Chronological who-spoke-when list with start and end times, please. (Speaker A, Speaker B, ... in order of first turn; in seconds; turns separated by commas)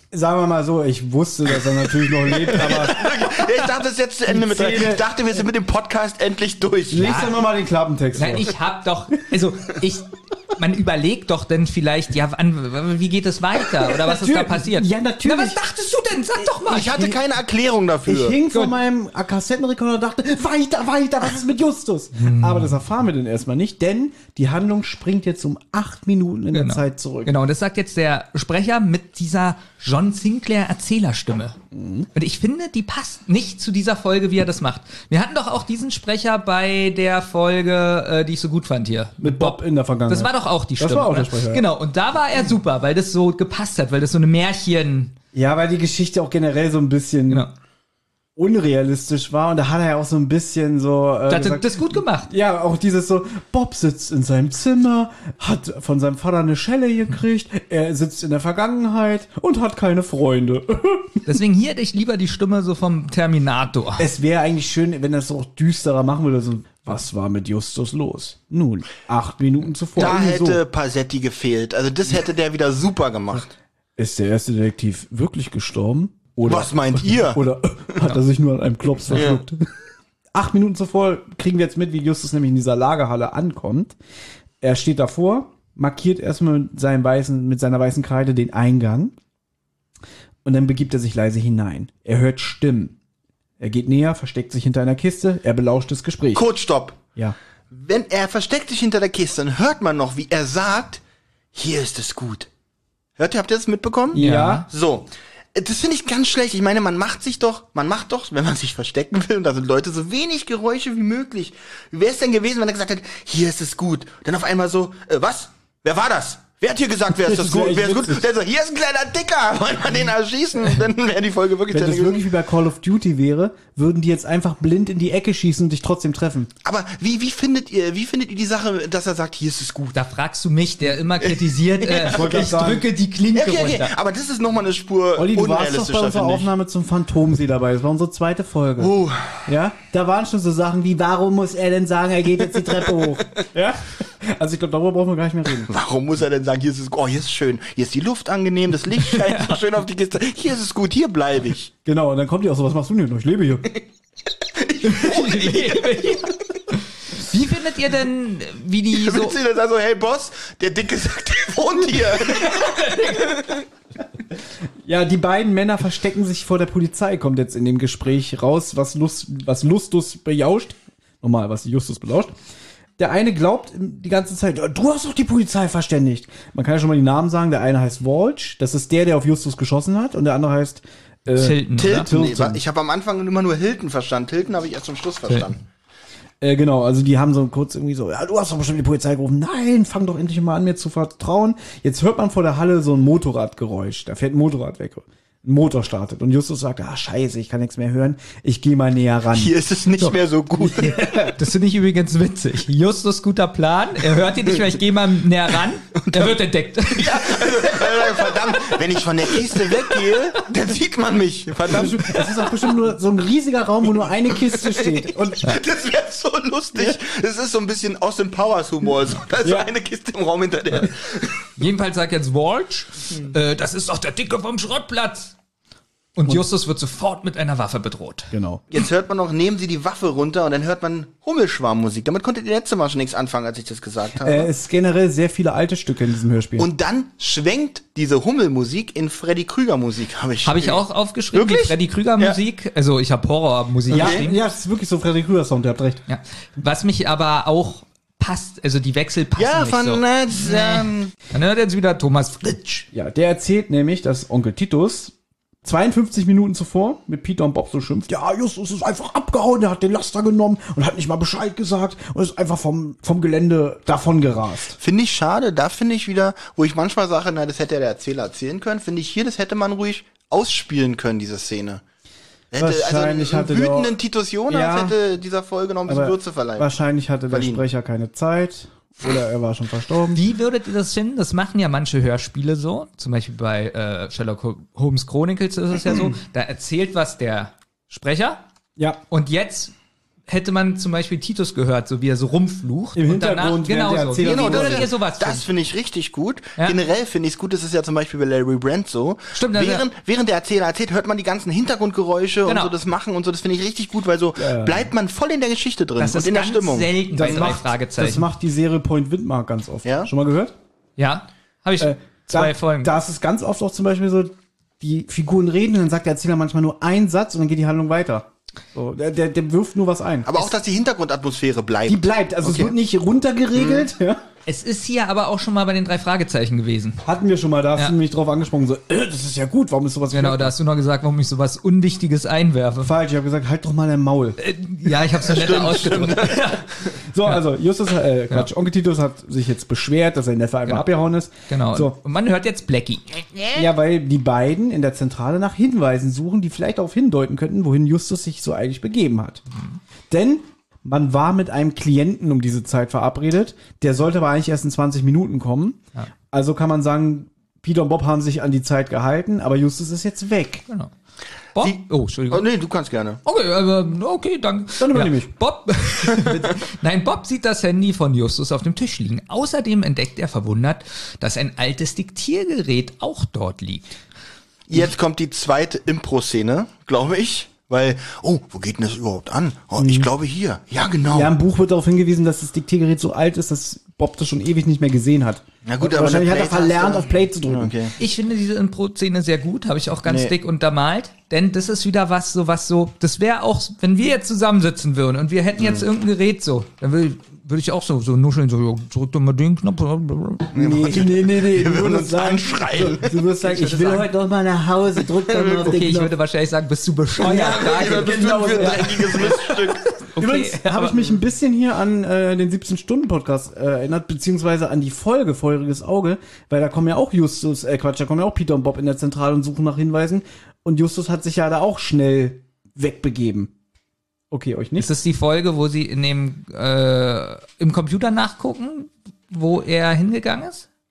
Speaker A: 0.1-3.1, Speaker B: 2.4-7.2, Speaker A: 4.3-5.0, Speaker A: 6.9-8.5, Speaker C: 6.9-7.4, Speaker C: 8.1-17.1, Speaker A: 14.1-15.6, Speaker B: 16.6-18.4, Speaker A: 18.1-27.3, Speaker C: 22.1-22.8, Speaker C: 26.5-31.6, Speaker A: 31.7-32.1, Speaker C: 32.1-45.1, Speaker A: 39.2-41.6, Speaker A: 45.3-47.4, Speaker A: 48.4-61.2, Speaker C: 51.3-52.3, Speaker C: 61.2-64.1, Speaker A: 64.0-70.6, Speaker B: 69.9-73.5, Speaker A: 74.0-79.7, Speaker B: 76.4-77.4, Speaker B: 79.1-79.4, Speaker A: 80.3-83.9, Speaker A: 84.6-89.1, Speaker A: 90.4-92.9, Speaker A: 93.6-96.4, Speaker B: 96.3-97.0, Speaker B: 97.7-101.0, Speaker B: 101.5-102.5, Speaker B: 103.2-122.2, Speaker A: 104.1-104.6, Speaker C: 104.2-104.7, Speaker A: 117.1-118.2, Speaker A: 121.7-126.5, Speaker B: 126.6-130.0, Speaker C: 129.9-133.9, Speaker B: 131.2-132.3, Speaker A: 132.1-132.8, Speaker B: 133.3-136.5, Speaker A: 135.2-145.7, Speaker B: 138.8-139.5, Speaker B: 145.7-151.7, Speaker C: 149.2-149.6, Speaker A: 151.8-153.8, Speaker B: 154.5-156.2, Speaker C: 154.8-159.3, Speaker B: 158.9-163.6, Speaker C: 162.3-163.4, Speaker A: 164.8-172.3, Speaker A: 173.0-182.6, Speaker C: 181.3-182.1, Speaker B: 181.8-185.6, Speaker A: 186.4-199.5, Speaker B: 199.3-201.0, Speaker A: 200.7-201.3, Speaker C: 200.7-208.2, Speaker B: 206.0-206.4, Speaker B: 206.9-212.0, Speaker C: 209.4-209.7, Speaker A: 211.7-215.5, Speaker C: 212.1-212.7, Speaker B: 214.5-221.5, Speaker A: 219.4-219.7, Speaker C: 221.6-225.3, Speaker C: 226.2-228.3, Speaker A: 228.3-228.6, Speaker B: 228.7-234.5, Speaker A: 234.2-236.7, Speaker B: 236.6-242.4, Speaker C: 240.4-244.4, Speaker A: 243.9-246.0, Speaker B: 243.9-244.3, Speaker C: 246.1-252.9, Speaker B: 249.4-251.1, Speaker A: 252.9-255.1, Speaker A: 255.6-264.8, Speaker B: 264.8-271.8, Speaker B: 272.5-276.7, Speaker A: 272.6-273.9, Speaker A: 274.5-274.9, Speaker A: 275.9-280.2, Speaker B: 277.3-277.6, Speaker C: 280.1-288.4, Speaker C: 289.1-289.7, Speaker C: 290.3-295.5, Speaker A: 292.9-294.9, Speaker B: 294.2-307.6, Speaker C: 299.3-299.9, Speaker C: 302.4-302.7, Speaker A: 304.4-304.9, Speaker C: 306.0-308.3, Speaker A: 307.1-310.5, Speaker B: 309.8-310.1, Speaker C: 311.0-312.9, Speaker A: 311.8-320.4, Speaker B: 320.2-322.7, Speaker A: 321.9-324.2, Speaker B: 323.5-323.9, Speaker C: 324.4-327.0, Speaker A: 327.0-330.5, Speaker C: 330.1-332.9, Speaker A: 332.8-334.4, Speaker C: 334.4-336.7, Speaker B: 335.2-336.8, Speaker A: 337.1-341.9, Speaker C: 341.5-343.6, Speaker A: 343.5-349.4, Speaker A: 350.1-355.8, Speaker A: 356.3-360.6, Speaker C: 361.5-362.5, Speaker B: 361.6-363.2, Speaker C: 363.2-374.0, Speaker A: 364.8-365.3, Speaker B: 374.7-381.3, Speaker A: 379.8-380.1, Speaker A: 381.1-387.8, Speaker B: 385.6-387.9, Speaker C: 388.0-400.5, Speaker B: 390.0-390.3, Speaker B: 395.6-395.8, Speaker A: 400.5-406.1, Speaker B: 400.5-403.1, Speaker C: 403.4-404.1, Speaker B: 405.3-405.6, Speaker C: 405.5-410.9, Speaker B: 407.2-409.9, Speaker A: 407.8-409.3, Speaker A: 410.2-423.5, Speaker A: 424.3-424.9, Speaker C: 424.8-430.6